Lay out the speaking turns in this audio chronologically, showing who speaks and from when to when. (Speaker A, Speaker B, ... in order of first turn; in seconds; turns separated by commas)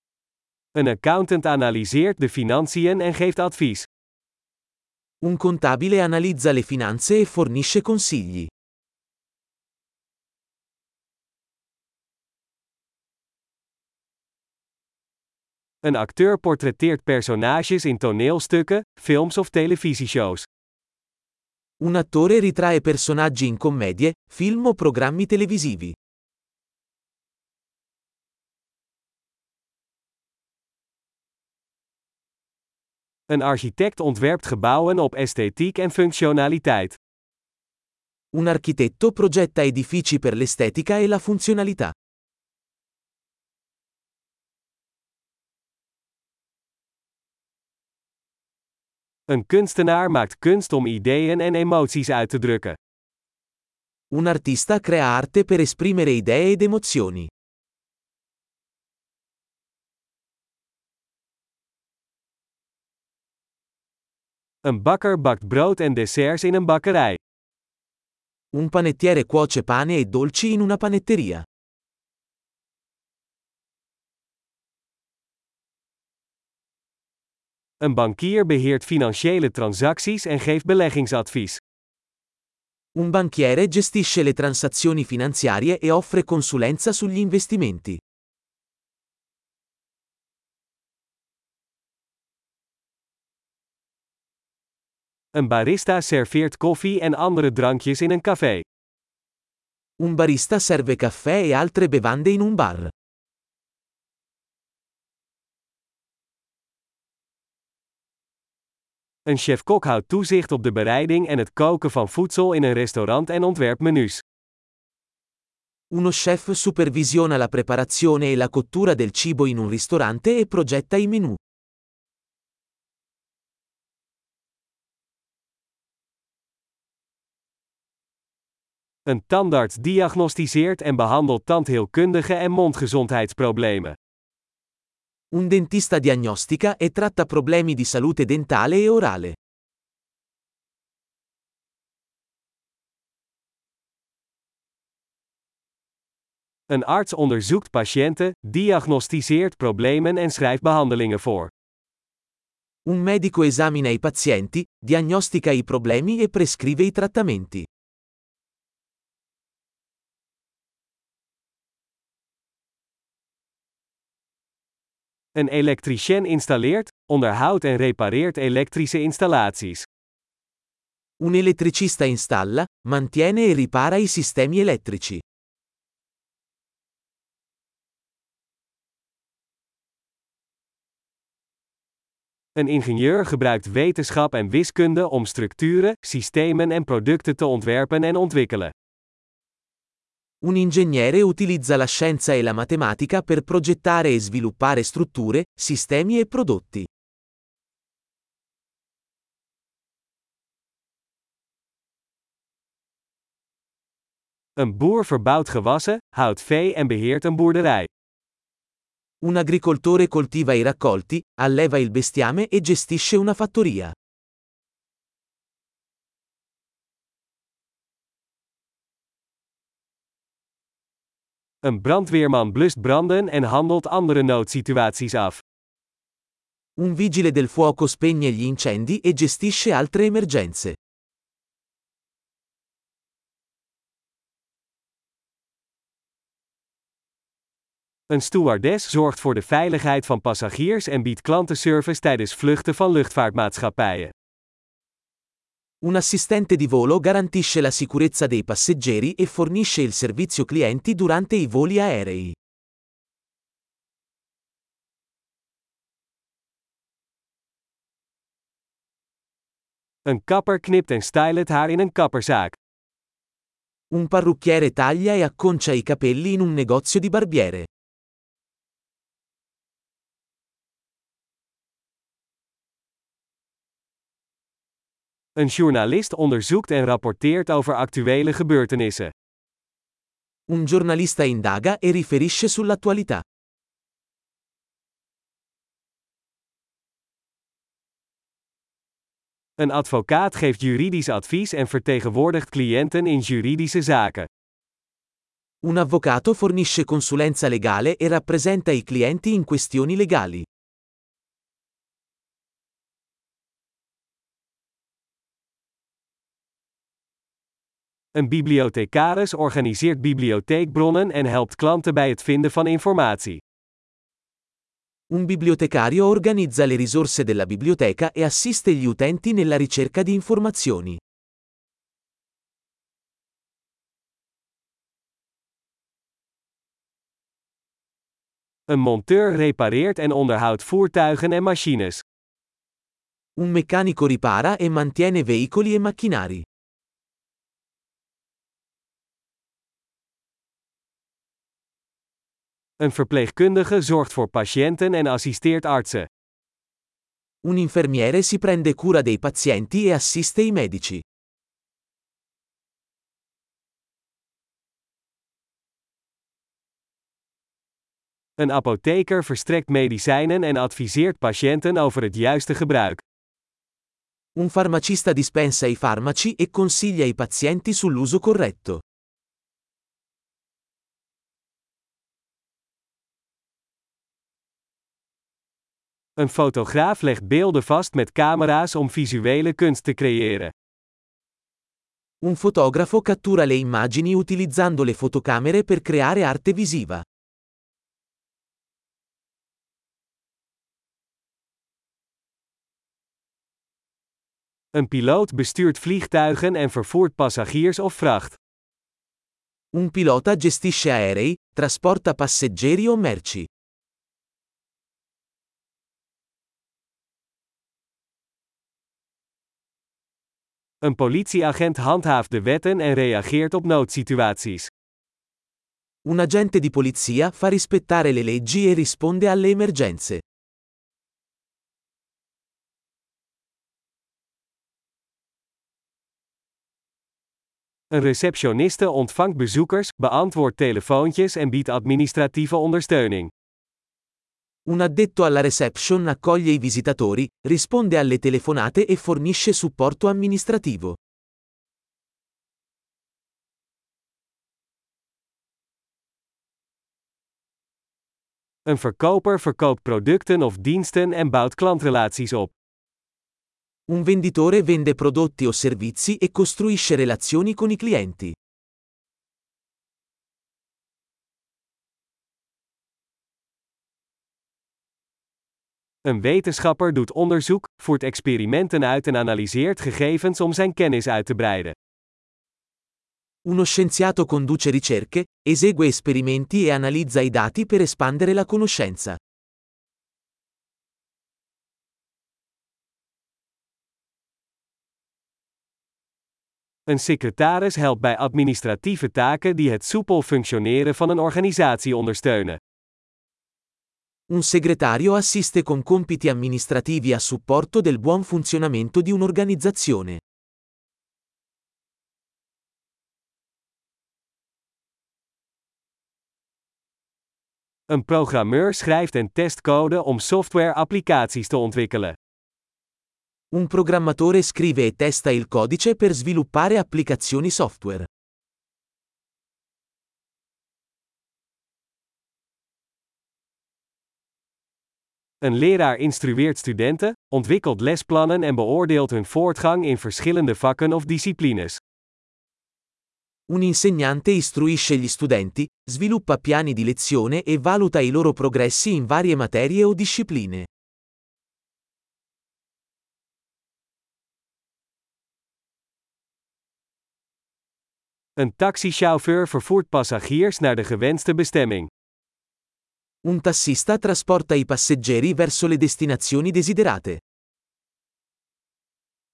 Speaker A: 0.7-3.9, Speaker B: 5.2-8.5, Speaker A: 15.8-20.5, Speaker B: 21.8-25.9, Speaker A: 33.3-37.0, Speaker B: 38.3-41.9, Speaker A: 49.3-52.8, Speaker B: 54.1-57.3, Speaker A: 64.6-67.2, Speaker B: 68.5-71.4, Speaker A: 77.8-81.6, Speaker B: 83.0-88.0, Speaker A: 95.3-98.6, Speaker B: 100.0-102.9, Speaker A: 109.2-114.2, Speaker B: 115.9-121.4, Speaker A: 129.1-133.9, Speaker B: 135.3-139.3, Speaker A: 146.7-151.5, Speaker B: 152.8-157.7, Speaker A: 165.3-169.8, Speaker B: 171.2-175.2, Speaker A: 182.6-188.7, Speaker B: 190.4-196.9, Speaker A: 204.6-207.9, Speaker B: 209.2-213.9, Speaker A: 221.6-225.4, Speaker B: 226.8-230.8, Speaker A: 238.1-244.1, Speaker B: 245.8-252.3, Speaker A: 260.1-262.6, Speaker B: 263.9-267.7, Speaker A: 275.4-279.1, Speaker B: 280.5-283.2, Speaker A: 289.6-294.3, Speaker B: 295.6-300.4, Speaker A: 308.1-313.4, Speaker B: 315.1-321.0, Speaker A: 328.7-332.0, Speaker B: 333.4-336.4, Speaker A: 342.8-346.1, Speaker B: 347.4-351.0, Speaker A: 358.4-363.0, Speaker B: 364.4-368.8, Speaker A: 376.2-380.5, Speaker B: 382.2-387.0, Speaker A: 394.7-398.4, Speaker B: 399.7-403.5, Speaker A: 410.8-414.7, Speaker B: 416.1-420.2, Speaker A: 427.9-433.3, Speaker B: 434.7-441.0, Speaker A: 448.7-452.6, Speaker B: 453.9-458.3, Speaker A: 466.0-471.7, Speaker B: 473.4-479.2, Speaker A: 486.9-492.6, Speaker B: 494.3-500.2, Speaker A: 507.9-512.2, Speaker B: 513.5-518.1, Speaker A: 525.4-531.8, Speaker B: 533.5-540.7, Speaker A: 548.4-551.9, Speaker B: 553.2-557.2